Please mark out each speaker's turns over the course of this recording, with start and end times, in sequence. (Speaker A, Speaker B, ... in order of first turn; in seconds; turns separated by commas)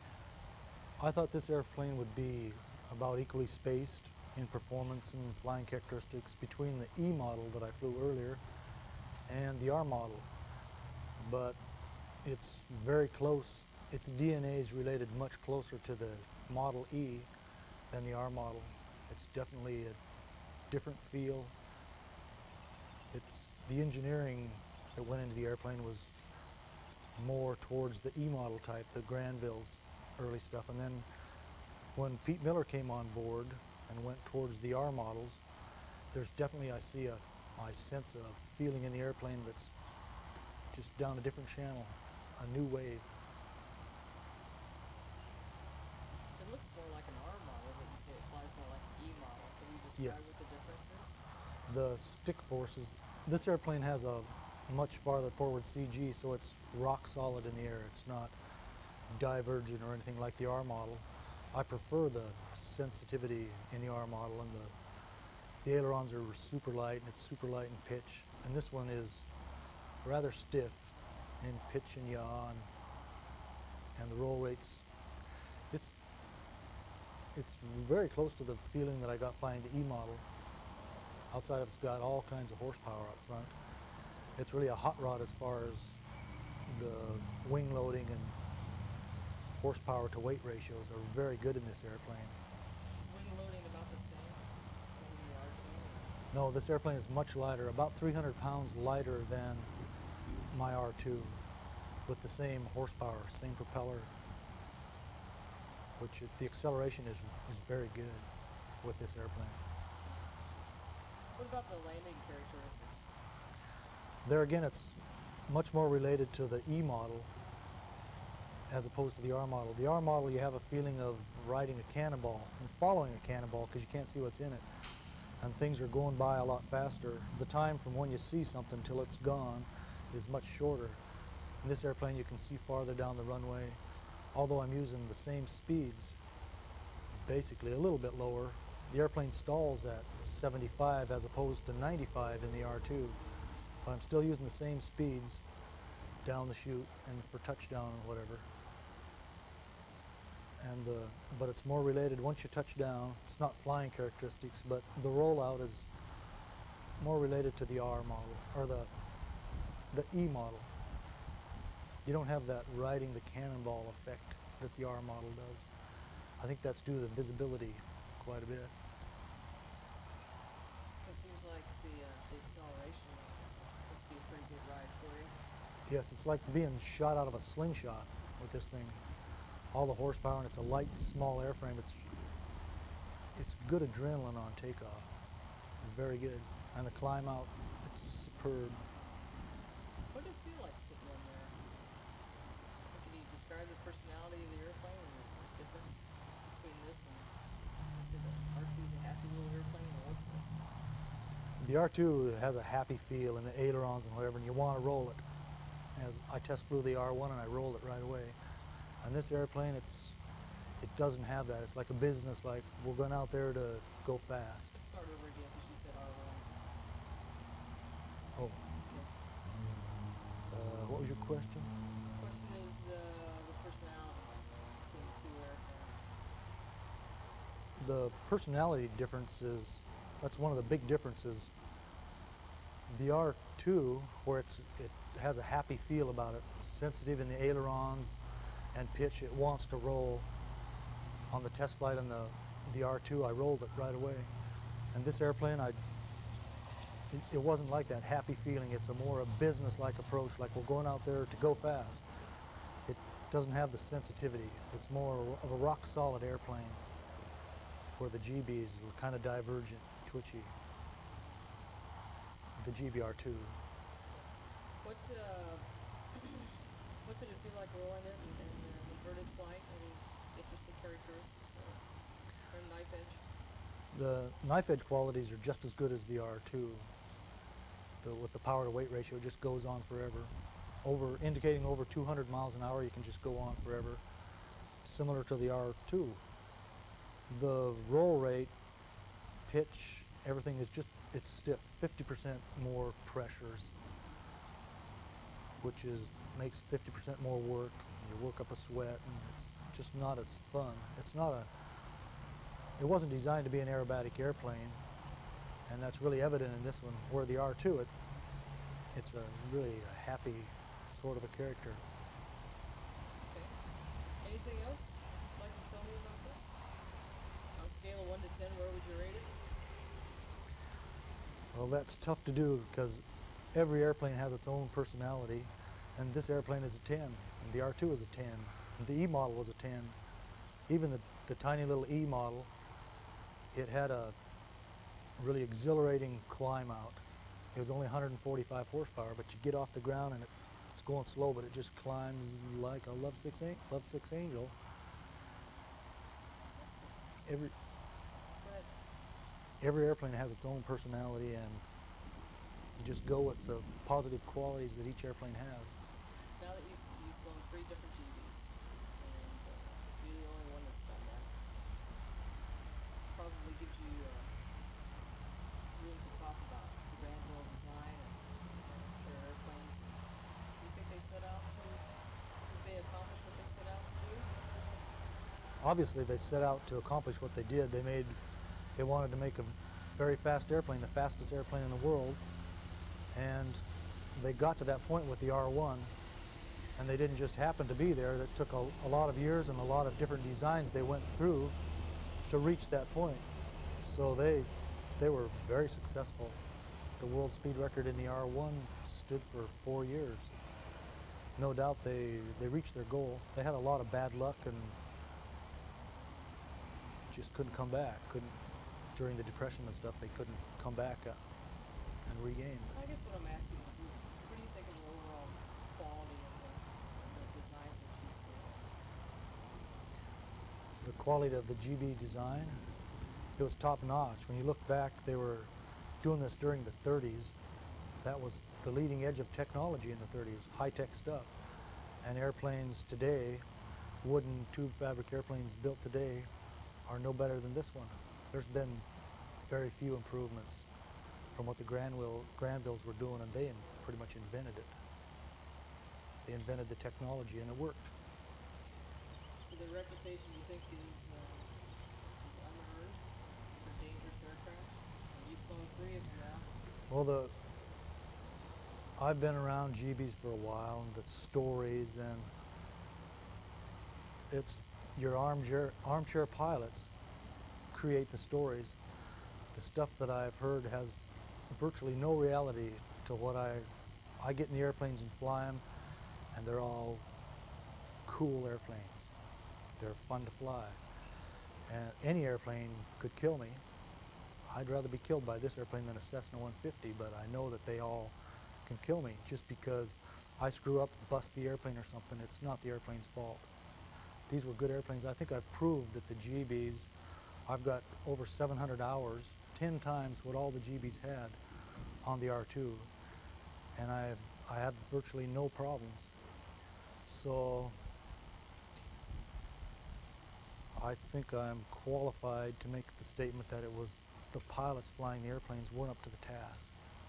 Speaker A: 1.0-8.4, Speaker A: 9.3-10.3, Speaker A: 11.2-11.6, Speaker A: 12.2-17.3, Speaker A: 17.9-20.0, Speaker A: 20.7-21.5, Speaker A: 23.1-26.1, Speaker A: 27.1-31.1, Speaker A: 31.9-35.4, Speaker A: 36.1-39.7, Speaker A: 40.7-43.0, Speaker B: 46.4-51.2, Speaker A: 50.0-50.3, Speaker A: 51.7-58.3, Speaker A: 59.1-64.7, Speaker A: 65.6-69.3, Speaker A: 70.0-72.7, Speaker A: 74.0-74.9, Speaker A: 75.7-76.0, Speaker A: 77.3-80.2, Speaker A: 81.3-83.5, Speaker A: 84.3-86.0, Speaker A: 86.7-88.3, Speaker A: 89.5-92.3, Speaker B: 93.0-94.4, Speaker B: 94.9-96.2, Speaker A: 96.3-99.7, Speaker A: 100.5-101.4, Speaker A: 102.0-104.1, Speaker A: 106.0-108.3, Speaker A: 108.8-109.6, Speaker B: 111.3-113.1, Speaker A: 114.2-117.3, Speaker A: 118.7-124.6, Speaker A: 125.4-131.0, Speaker A: 131.6-133.8, Speaker A: 134.3-136.2, Speaker A: 137.2-143.2, Speaker A: 143.8-145.4, Speaker A: 146.2-148.4, Speaker A: 150.6-155.9, Speaker A: 157.0-158.9, Speaker A: 159.9-160.7, Speaker A: 162.0-165.7, Speaker A: 166.4-168.7, Speaker B: 171.0-175.3, Speaker A: 175.9-179.0, Speaker A: 179.7-182.1, Speaker A: 183.3-185.1, Speaker A: 185.8-188.8, Speaker B: 190.1-191.6, Speaker B: 192.9-197.3, Speaker B: 197.9-200.6, Speaker A: 201.6-205.2, Speaker A: 205.9-208.3, Speaker A: 209.0-210.2, Speaker A: 210.8-214.7, Speaker B: 214.7-216.5, Speaker A: 218.3-218.6, Speaker B: 218.8-219.1, Speaker A: 220.5-221.7, Speaker B: 222.2-226.1, Speaker A: 227.8-231.5, Speaker A: 232.9-238.2, Speaker A: 238.7-240.3, Speaker A: 241.3-244.3, Speaker A: 244.9-245.8, Speaker A: 247.1-252.1, Speaker A: 252.8-256.8, Speaker A: 257.9-260.5, Speaker A: 262.6-263.6, Speaker B: 264.1-271.8, Speaker B: 272.5-273.2, Speaker A: 273.9-276.9, Speaker A: 278.0-280.3, Speaker A: 280.8-284.0, Speaker A: 284.8-286.2, Speaker A: 287.3-288.5, Speaker A: 289.5-293.7, Speaker A: 295.6-301.5, Speaker A: 302.8-304.8, Speaker A: 305.7-307.9, Speaker A: 308.9-311.8, Speaker B: 313.3-313.6, Speaker B: 314.2-316.5, Speaker B: 317.6-319.4, Speaker A: 321.5-329.9, Speaker A: 330.7-332.5, Speaker A: 333.5-334.1, Speaker A: 335.2-337.0, Speaker A: 337.5-344.5, Speaker B: 346.5-347.0, Speaker A: 347.2-347.5, Speaker B: 348.4-348.7, Speaker A: 349.6-351.6, Speaker A: 352.8-355.7, Speaker B: 356.4-361.3, Speaker B: 363.1-364.3, Speaker B: 365.7-370.0, Speaker B: 370.6-371.8, Speaker B: 372.4-374.3, Speaker A: 375.6-378.2, Speaker A: 378.8-382.2, Speaker A: 383.1-383.6, Speaker A: 384.1-385.9, Speaker A: 386.8-391.6, Speaker A: 392.3-393.2, Speaker A: 393.8-396.4, Speaker A: 397.0-400.3, Speaker A: 401.4-404.8, Speaker A: 407.1-408.3, Speaker A: 408.9-411.2, Speaker A: 412.0-412.7, Speaker B: 412.7-418.6, Speaker A: 420.8-422.6, Speaker A: 423.4-425.5, Speaker A: 426.0-427.3, Speaker A: 428.0-431.3, Speaker A: 432.0-433.4, Speaker A: 434.0-436.3, Speaker A: 436.9-438.9, Speaker A: 439.4-440.7, Speaker A: 441.3-444.7, Speaker A: 446.2-447.9, Speaker B: 449.4-451.5, Speaker B: 452.2-453.0, Speaker B: 453.5-456.5, Speaker A: 456.9-457.3, Speaker A: 459.0-462.3, Speaker A: 464.3-466.9, Speaker A: 467.7-468.8, Speaker A: 469.5-475.6, Speaker A: 476.3-477.0, Speaker A: 478.1-479.1, Speaker A: 479.8-480.8, Speaker A: 481.7-483.6, Speaker A: 484.5-493.5, Speaker A: 494.3-496.9, Speaker A: 497.5-501.4, Speaker A: 502.0-502.9, Speaker A: 503.8-506.1, Speaker A: 507.0-507.7, Speaker A: 510.7-516.7